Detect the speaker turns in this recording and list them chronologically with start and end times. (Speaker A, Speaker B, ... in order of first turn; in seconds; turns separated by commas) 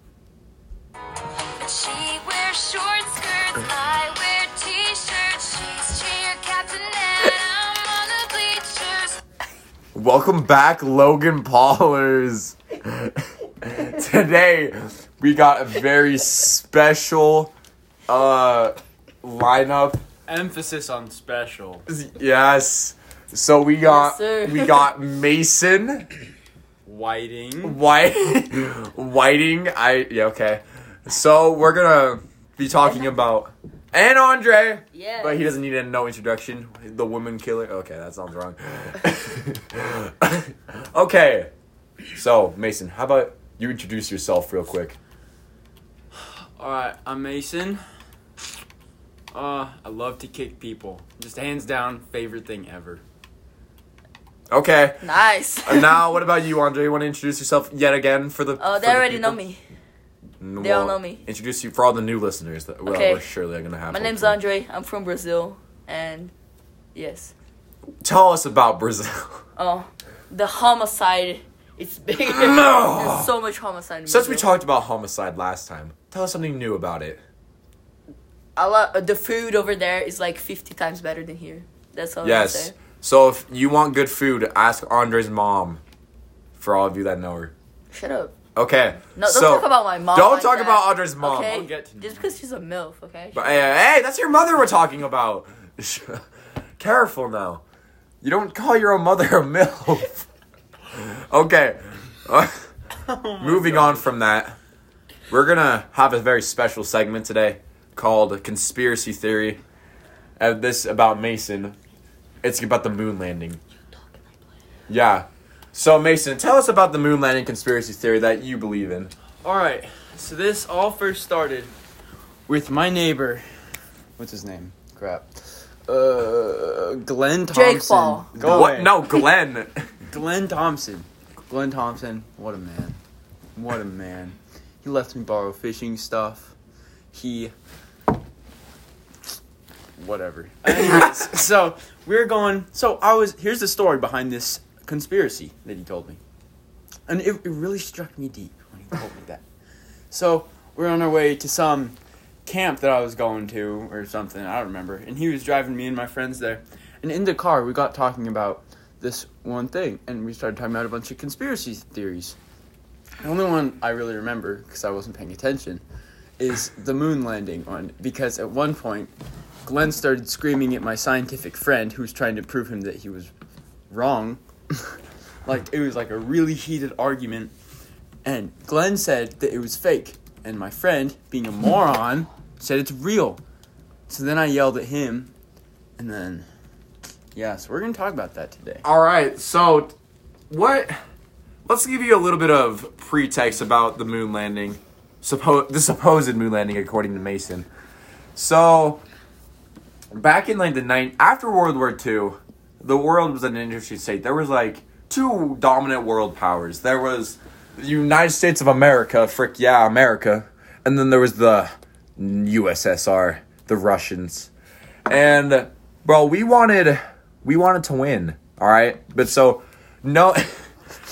Speaker A: 1.6-9.2, Speaker B: 9.9-17.5, Speaker B: 18.1-20.0, Speaker C: 20.3-21.9, Speaker B: 21.9-26.1, Speaker D: 23.8-24.9, Speaker C: 26.9-27.8, Speaker B: 27.6-41.5, Speaker D: 34.9-35.5, Speaker B: 42.1-45.0, Speaker C: 46.1-47.8, Speaker C: 49.3-53.0, Speaker B: 54.5-55.1, Speaker D: 55.0-56.0, Speaker B: 55.6-59.4, Speaker D: 58.6-59.6, Speaker B: 60.4-64.4, Speaker D: 60.6-61.2, Speaker D: 62.9-63.2, Speaker D: 63.9-66.3, Speaker D: 67.0-67.3, Speaker B: 68.0-69.4, Speaker D: 69.6-74.5, Speaker B: 72.2-73.3, Speaker B: 74.1-77.2, Speaker D: 78.6-82.8, Speaker B: 82.2-85.8, Speaker B: 86.6-87.5, Speaker D: 87.9-88.3, Speaker B: 88.5-91.6, Speaker D: 89.1-93.6, Speaker C: 91.4-92.3, Speaker B: 93.3-96.2, Speaker B: 96.8-97.6, Speaker B: 98.2-100.3, Speaker B: 100.9-102.7, Speaker C: 103.0-104.1, Speaker B: 103.4-104.6, Speaker B: 105.3-109.6, Speaker B: 110.4-111.8, Speaker B: 112.4-113.6, Speaker B: 114.9-119.1, Speaker C: 119.4-121.7, Speaker C: 122.5-123.5, Speaker C: 124.2-129.0, Speaker D: 127.5-128.3, Speaker B: 128.4-129.9, Speaker C: 130.1-133.0, Speaker C: 133.6-136.5, Speaker C: 137.1-137.5, Speaker C: 140.0-146.2, Speaker C: 147.1-149.4, Speaker C: 150.1-162.4, Speaker C: 163.2-165.8, Speaker C: 166.4-169.1, Speaker C: 169.7-173.3, Speaker C: 173.9-177.5, Speaker C: 178.2-183.4, Speaker C: 184.1-185.3, Speaker C: 186.0-186.5, Speaker C: 187.3-188.8, Speaker B: 188.8-189.9, Speaker B: 190.5-190.9, Speaker B: 191.7-197.7, Speaker B: 198.4-199.0, Speaker B: 200.1-214.5, Speaker B: 215.1-220.7